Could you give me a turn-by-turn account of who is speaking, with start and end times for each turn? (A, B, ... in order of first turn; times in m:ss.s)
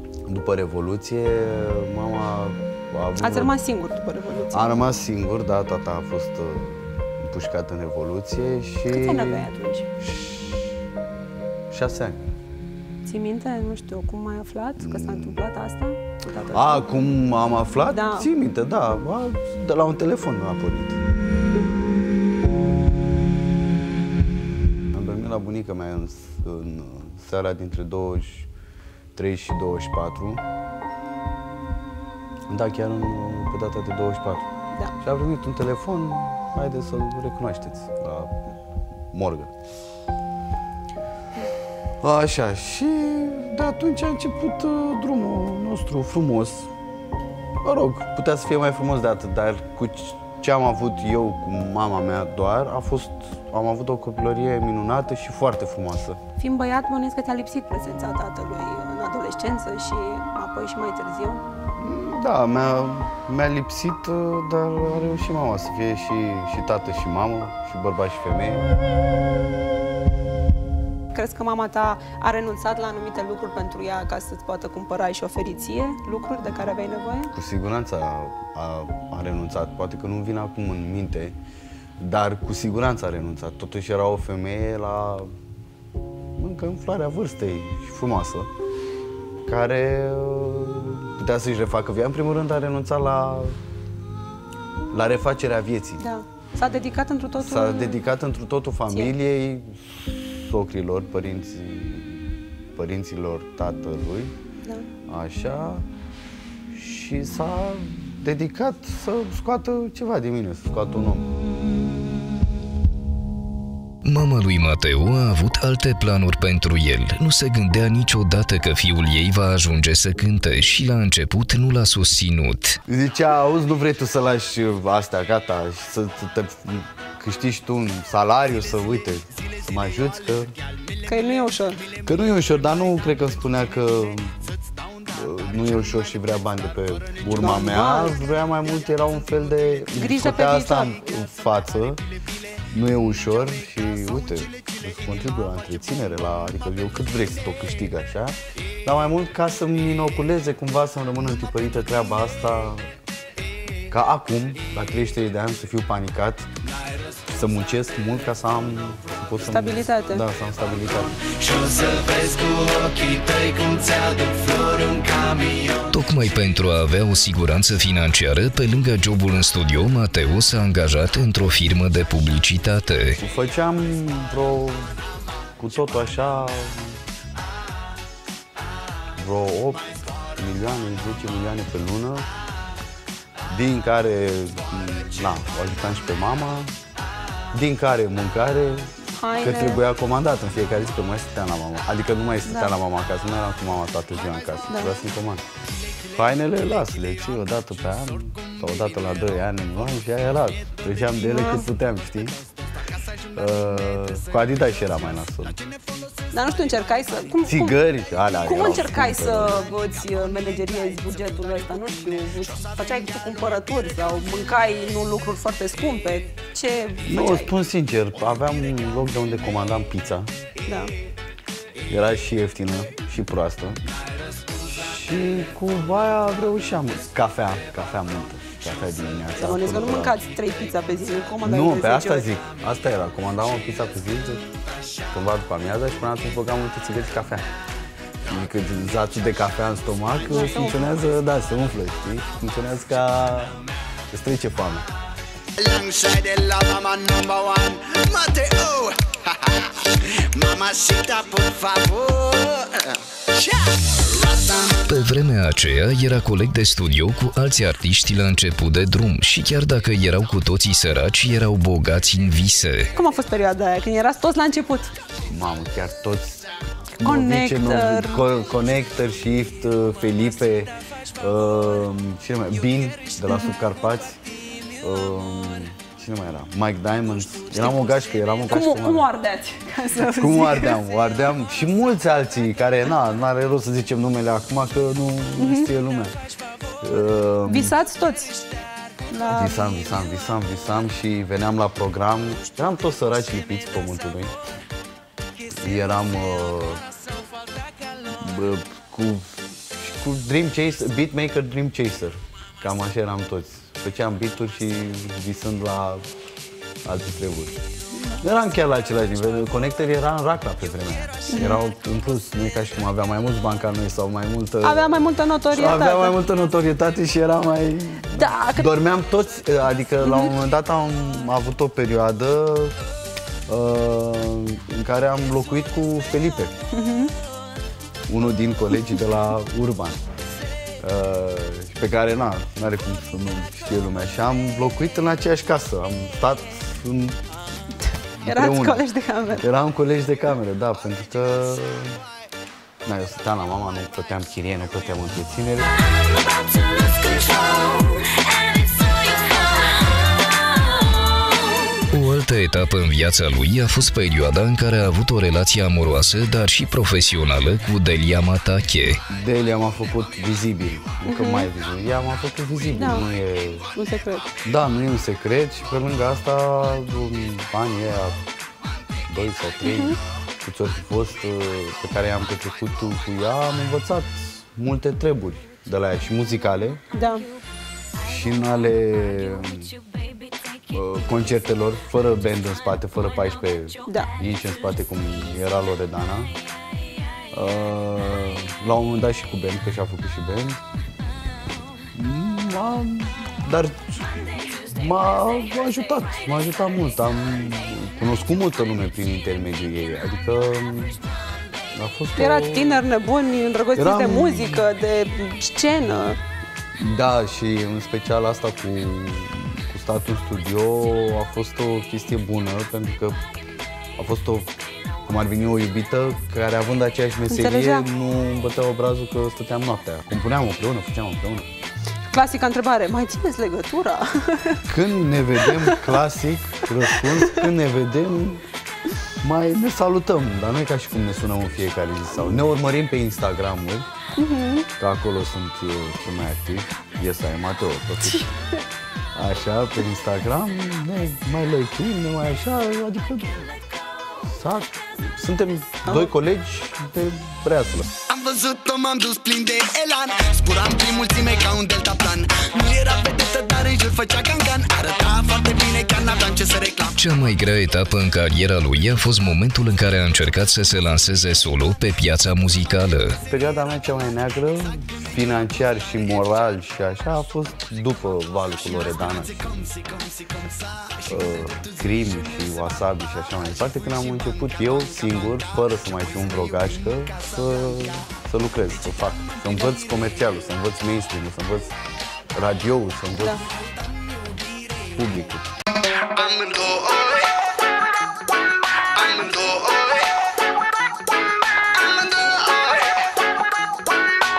0:00.3-0:03.6 A
0:03.2-0:04.8 B
0:04.5-0:09.5 A
0:08.9-0:09.9 B
0:10.0-0:10.6 A
0:11.7-0:12.2 A
0:13.0-0:16.8 B
0:14.8-0:15.4 A
0:16.5-0:21.0 A
0:17.9-0:18.3 B
0:24.9-0:28.5 A
0:29.2-0:30.4 A
0:32.5-0:34.5 A
0:35.0-0:38.4 A
0:39.1-0:39.5 A
0:42.0-0:46.7 A
0:47.6-0:56.2 A
0:56.4-1:01.4 B
1:01.8-1:08.7 A
1:11.1-1:17.3 B
1:17.3-1:21.4 A
1:22.0-1:25.3 A
1:26.4-1:28.5 A
1:29.5-1:33.6 A
1:34.9-1:36.0 A
1:36.0-1:38.0 B
1:37.4-1:44.4 A
1:45.1-1:45.9 A
1:46.7-1:51.9 A
1:54.0-2:02.8 C
2:02.9-2:10.6 A
2:11.1-2:11.8 B
2:12.0-2:14.4 A
2:15.1-2:22.0 A
2:17.4-2:18.1 B
2:20.0-2:20.9 B
2:22.7-2:32.9 A
2:33.9-2:36.5 A
2:37.3-2:41.3 A
2:39.5-2:40.2 B
2:41.4-2:45.9 D
2:45.9-2:53.2 C
2:53.2-2:55.0 A
2:55.6-2:57.0 A
2:59.2-3:02.3 A
3:03.5-3:06.7 A
3:07.5-3:15.4 A
3:09.2-3:09.8 B
3:16.2-3:22.4 A
3:21.2-3:21.7 B
3:23.4-3:25.6 A
3:26.3-3:27.8 B
3:27.4-3:29.7 A
3:28.4-3:37.5 B
3:37.1-3:40.3 A
3:41.9-3:43.8 A
3:44.6-3:50.2 A
3:49.4-3:52.3 B
3:51.4-3:54.5 A
3:55.1-3:57.5 A
3:58.3-4:03.6 A
4:00.3-4:00.9 B
4:04.1-4:04.9 A
4:05.6-4:14.8 D
4:14.9-4:22.9 C
4:23.0-4:24.9 B
4:25.3-4:26.4 A
4:27.0-4:34.2 A
4:27.0-4:28.2 B
4:34.8-4:39.1 A
4:38.5-4:40.8 B
4:40.0-4:46.2 A
4:45.4-4:45.7 B
4:46.8-4:47.8 A
4:47.5-4:48.4 B
4:49.1-4:49.6 B
4:49.3-4:54.4 A
4:55.5-4:56.8 A
4:58.1-5:06.1 A
5:06.8-5:07.6 A
5:08.2-5:22.8 A
5:11.3-5:11.6 B
5:14.6-5:16.1 B
5:18.2-5:18.7 B
5:20.0-5:20.3 B
5:23.5-5:26.7 A
5:26.7-5:27.1 B
5:28.1-5:30.0 A
5:30.8-5:37.2 A
5:38.2-5:42.0 A
5:38.2-5:39.4 B
5:42.8-5:45.8 A
5:47.2-5:47.5 D
5:51.9-5:59.0 C
5:59.1-6:03.7 A
6:01.1-6:01.5 B
6:02.8-6:03.0 B
6:03.8-6:04.3 B
6:04.4-6:08.2 A
6:09.1-6:16.8 A
6:09.6-6:10.0 B
6:16.9-6:17.3 B
6:18.0-6:19.7 A
6:20.7-6:26.4 A
6:27.3-6:30.6 A
6:31.9-6:41.0 A
6:41.7-6:42.9 A
6:42.2-6:46.2 B
6:43.8-6:44.7 A
6:46.8-6:53.2 A
6:54.0-6:54.5 A
6:55.1-7:01.5 A
6:57.3-6:57.8 B
7:02.1-7:04.6 B
7:04.7-7:08.4 A
7:05.5-7:05.8 B
7:09.2-7:13.9 A
7:14.2-7:14.7 B
7:14.8-7:18.3 A
7:19.2-7:23.5 A
7:24.2-7:27.9 A
7:28.1-7:37.0 D
7:37.0-7:43.2 C
7:43.3-7:49.7 A
7:51.1-8:01.8 A
8:02.3-8:03.4 A
8:04.9-8:05.5 A
8:06.1-8:07.3 D
8:08.9-8:10.1 D
8:11.7-8:12.9 D